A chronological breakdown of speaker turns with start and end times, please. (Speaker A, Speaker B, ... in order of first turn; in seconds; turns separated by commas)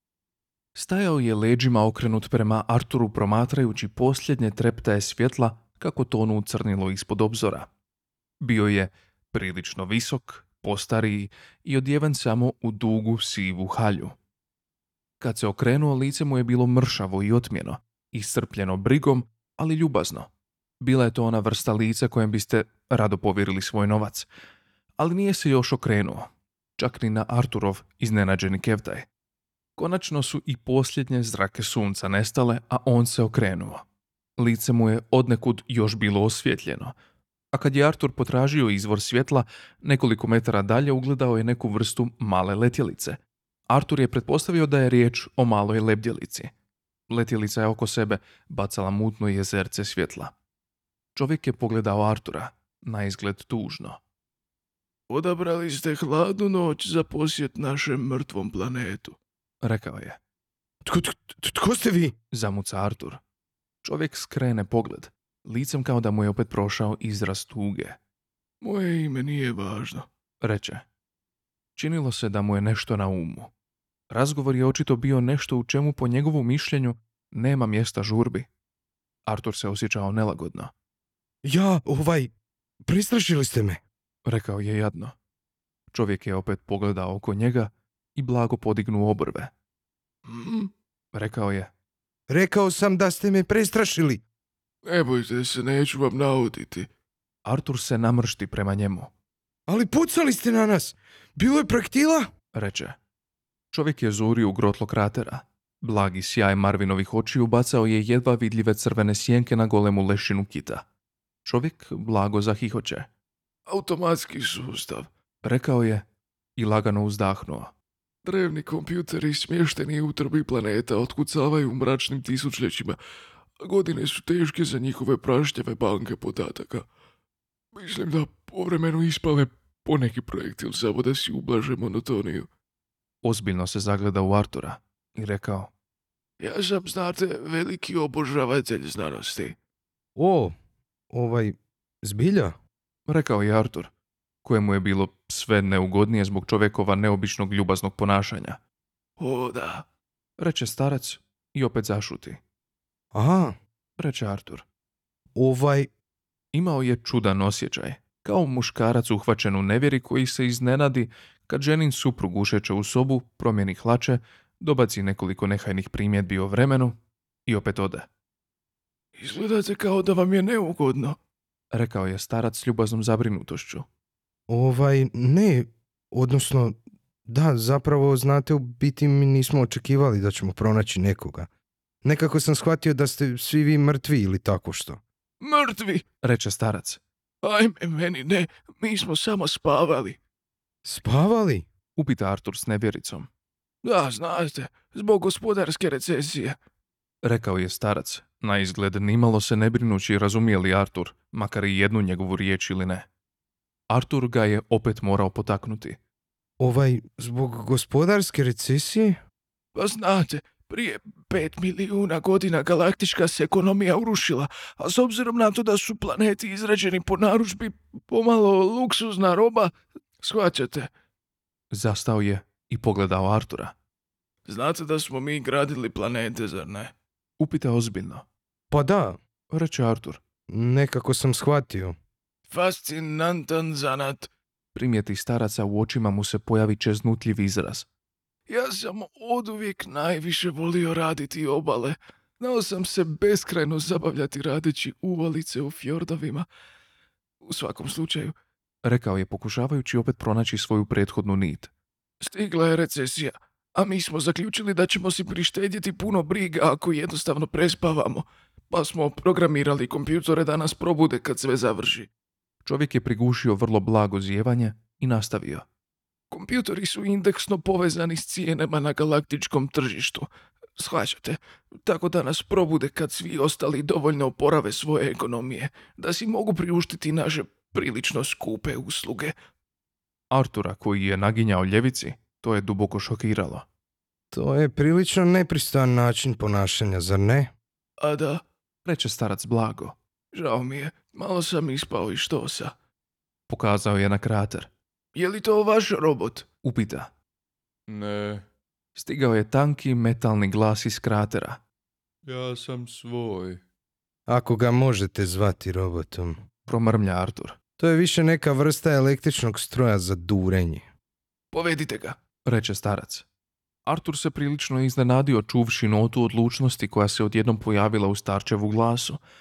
Speaker A: 0.8-7.7, Speaker A: 8.4-14.2, Speaker A: 15.2-20.3, Speaker A: 20.8-24.3, Speaker A: 25.0-29.1, Speaker A: 29.8-33.8, Speaker A: 34.4-36.9, Speaker A: 37.5-46.5, Speaker A: 47.1-50.3, Speaker A: 51.1-54.0, Speaker B: 55.1-59.2, Speaker A: 59.6-60.2, Speaker C: 60.9-62.1, Speaker A: 62.3-63.2, Speaker A: 63.8-68.0, Speaker B: 68.6-70.1, Speaker A: 70.4-70.8, Speaker A: 71.8-73.5, Speaker A: 74.1-78.5, Speaker A: 79.3-80.7, Speaker C: 81.4-82.3, Speaker C: 82.8-83.8, Speaker A: 84.2-85.2, Speaker A: 85.9-89.5, Speaker B: 90.3-90.7, Speaker A: 91.1-91.7, Speaker C: 92.3-94.2, Speaker B: 94.8-96.9, Speaker A: 97.5-99.1, Speaker C: 99.7-102.3, Speaker A: 102.5-103.0, Speaker A: 103.7-110.8, Speaker A: 111.5-113.1, Speaker B: 113.7-115.1, Speaker A: 115.4-116.0, Speaker A: 116.6-117.7, Speaker B: 118.2-123.0, Speaker B: 123.6-126.9, Speaker B: 127.8-132.5, Speaker A: 133.2-135.7, Speaker B: 136.4-139.6, Speaker C: 140.2-140.5, Speaker C: 141.1-142.6, Speaker A: 143.1-143.9, Speaker A: 144.4-148.6, Speaker B: 149.2-149.8, Speaker A: 150.4-152.4, Speaker C: 153.1-153.6, Speaker A: 154.0-154.7, Speaker C: 155.4-155.9, Speaker A: 156.5-168.1, Speaker B: 169.2-171.2, Speaker A: 171.7-173.9, Speaker C: 174.5-181.5, Speaker C: 182.0-185.0, Speaker B: 185.4-186.1, Speaker A: 186.2-187.0, Speaker B: 187.4-190.2, Speaker C: 190.8-191.7, Speaker A: 192.0-193.3, Speaker B: 193.8-196.6, Speaker A: 197.2-203.1, Speaker A: 203.9-206.0, Speaker C: 206.6-209.2, Speaker B: 209.8-220.9, Speaker A: 221.7-223.7, Speaker B: 224.5-226.9, Speaker A: 227.4-228.2, Speaker C: 228.7-229.2, Speaker A: 229.5-230.2, Speaker C: 230.5-232.0, Speaker B: 232.5-234.3, Speaker A: 234.8-237.9, Speaker B: 238.5-246.5, Speaker B: 247.5-248.3, Speaker A: 248.8-251.7, Speaker B: 252.2-262.1, Speaker A: 262.6-265.6, Speaker B: 266.3-279.3, Speaker A: 280.3-283.7, Speaker C: 284.3-287.5, Speaker B: 288.0-288.4, Speaker A: 288.9-290.0, Speaker B: 290.3-292.7, Speaker A: 293.5-294.7, Speaker B: 295.1-296.5, Speaker A: 296.6-297.1, Speaker D: 297.9-298.4, Speaker A: 298.9-301.6, Speaker D: 302.3-303.6, Speaker C: 304.3-306.4, Speaker A: 306.7-307.6, Speaker C: 307.8-310.9, Speaker B: 311.5-312.1, Speaker A: 312.4-313.3, Speaker A: 313.9-319.2